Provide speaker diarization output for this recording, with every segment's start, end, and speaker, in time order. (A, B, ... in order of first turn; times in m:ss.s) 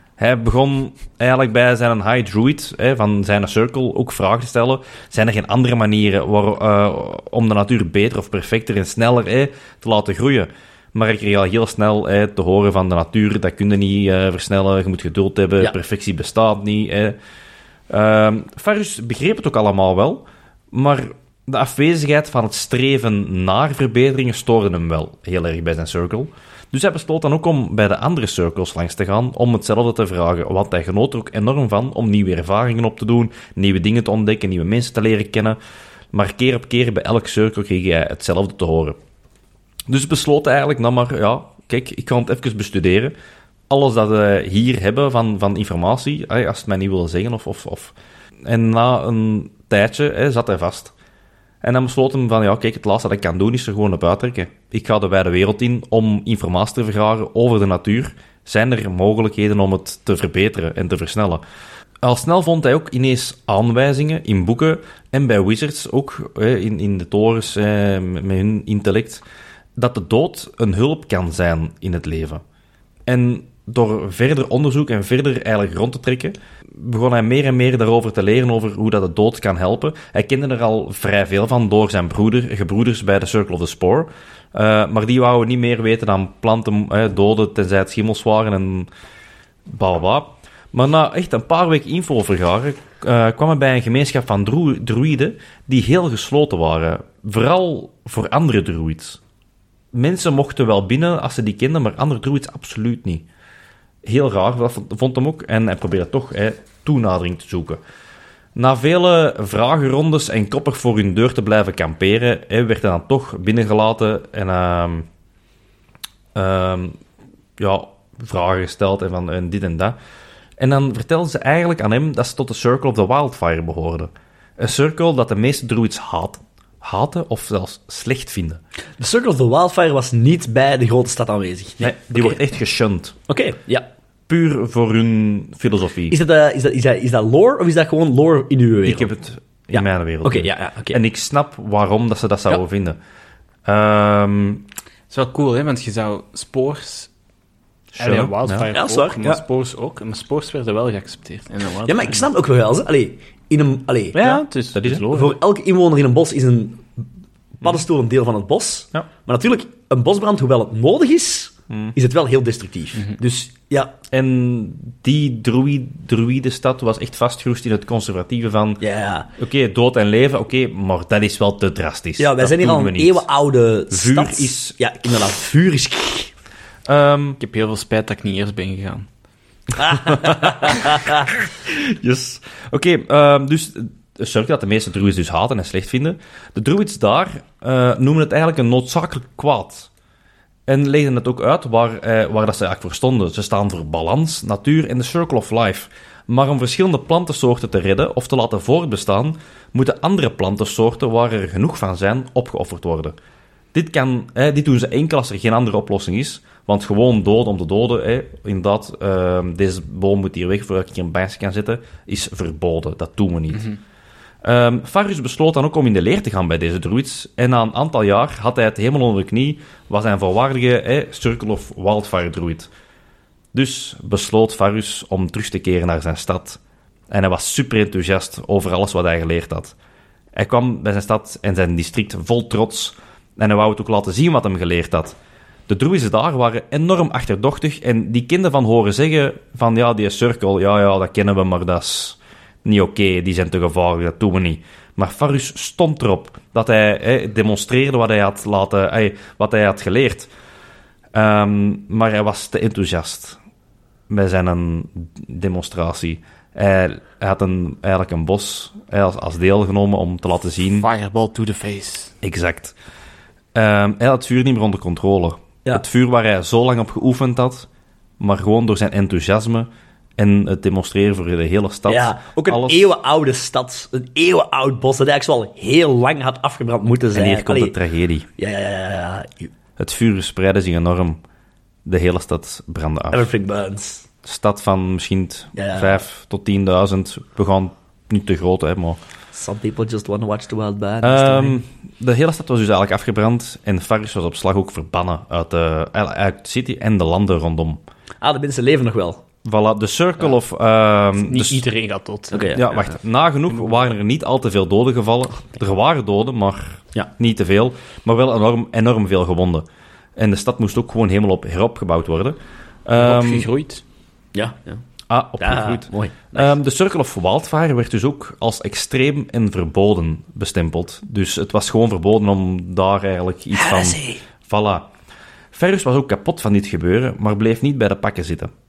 0:00.2-0:17.2 A
0:17.9-0:35.6 A
0:36.1-0:39.0 A
0:39.9-0:43.1 A
0:43.7-0:50.9 A
0:51.6-1:01.4 A
1:02.0-1:09.2 A
1:09.8-1:12.4 A
1:13.1-1:28.9 A
1:29.7-1:39.2 A
1:39.9-1:43.3 A
1:44.0-1:47.8 A
1:48.6-1:55.1 A
1:56.4-1:57.0 A
1:57.6-2:00.0 A
2:00.6-2:08.6 A
2:09.0-2:12.4 B
2:11.8-2:13.2 A
2:13.3-2:13.9 B
2:14.3-2:16.2 A
2:16.1-2:19.1 B
2:18.9-2:23.0 A
2:19.7-2:21.0 B
2:23.6-2:24.7 A
2:25.1-2:27.1 C
2:28.0-2:28.7 A
2:28.0-2:32.3 C
2:28.7-2:29.4 B
2:31.8-2:34.3 B
2:34.1-2:35.4 C
2:34.2-2:35.1 A
2:35.1-2:37.0 B
2:37.6-2:43.9 B
2:44.1-2:48.8 A
2:48.8-2:49.3 B
2:49.4-2:53.3 A
2:52.2-2:56.3 B
2:53.9-2:54.8 A
2:56.9-2:57.4 A
2:57.4-2:59.1 C
2:59.8-3:01.3 B
2:59.9-3:09.9 A
3:10.7-3:23.2 A
3:23.7-3:33.8 A
3:34.4-3:42.7 A
3:43.5-3:46.6 A
3:47.1-3:49.8 A
3:50.4-3:55.2 A
3:55.7-4:10.3 A
4:11.1-4:13.4 A
4:14.1-4:20.9 A
4:20.8-4:22.1 C
4:22.2-4:22.8 A
4:23.6-4:27.7 A
4:28.2-4:32.9 A
4:31.9-4:37.8 B
4:37.1-4:38.3 A
4:38.4-4:39.5 B
4:39.8-4:41.2 A
4:41.9-4:43.3 A
4:43.1-4:44.0 B
4:44.2-4:49.0 A
4:45.6-4:46.0 B
4:49.3-4:51.6 B
4:51.0-4:57.8 A
4:58.2-4:59.2 B
4:59.4-5:01.6 A
5:01.2-5:02.6 C
5:02.3-5:02.8 B
5:02.6-5:13.5 A
5:13.0-5:13.8 C
5:14.4-5:14.8 B
5:15.1-5:24.9 A
5:15.4-5:16.5 B
5:23.5-5:24.2 B
5:25.5-5:28.5 A